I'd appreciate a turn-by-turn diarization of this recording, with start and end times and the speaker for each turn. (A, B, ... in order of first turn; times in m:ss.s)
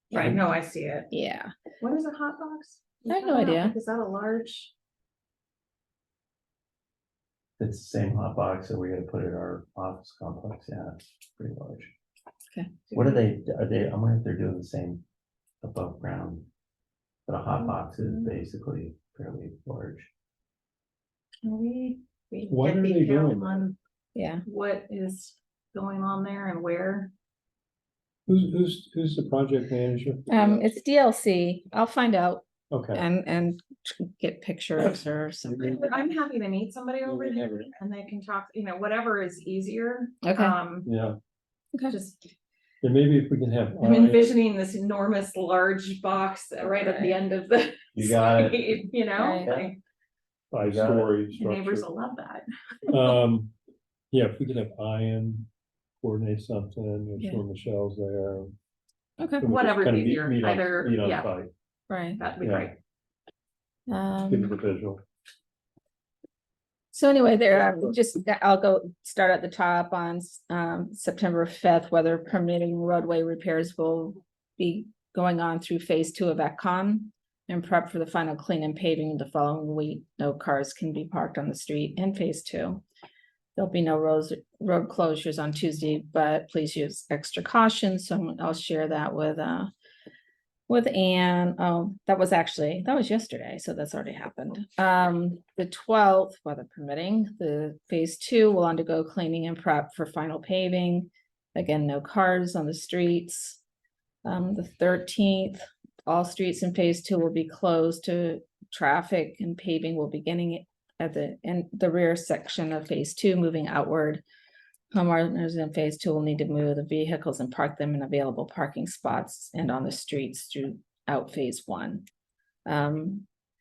0:00.1-0:01.1 A
0:01.1-0:01.5 B
0:01.8-0:04.7 A
0:03.1-0:03.8 B
0:07.6-0:11.9 C
0:12.9-0:13.2 A
0:12.9-0:15.0 C
0:15.6-0:16.5 C
0:17.3-0:20.1 C
0:21.4-0:23.8 A
0:22.5-0:23.7 D
0:24.2-0:24.4 B
0:24.4-0:27.1 A
0:28.3-0:30.3 D
0:30.3-0:36.0 B
0:32.7-0:33.0 D
0:35.7-0:40.9 A
0:40.2-0:40.6 B
0:40.9-0:41.2 D
0:41.9-0:42.3 A
0:42.8-0:44.4 D
0:43.8-0:49.8 A
0:46.6-0:47.2 B
0:48.0-0:48.7 C
0:49.2-0:49.5 B
0:49.4-0:49.7 C
0:50.5-0:51.9 D
0:50.6-0:51.1 C
0:51.4-0:53.0 A
0:52.9-0:53.5 D
0:54.1-0:55.5 D
0:56.0-0:58.5 D
0:57.2-0:57.4 B
0:59.2-0:59.5 B
0:59.4-1:01.3 A
0:59.4-1:01.5 D
1:01.9-1:02.2 B
1:02.2-1:02.8 A
1:02.4-1:02.7 D
1:03.9-1:04.6 B
1:04.3-1:05.0 D
1:06.9-1:22.8 B
1:23.6-1:29.7 B
1:30.7-1:43.6 B
1:44.2-1:54.2 B
1:54.9-2:02.0 B
2:02.7-2:03.3 B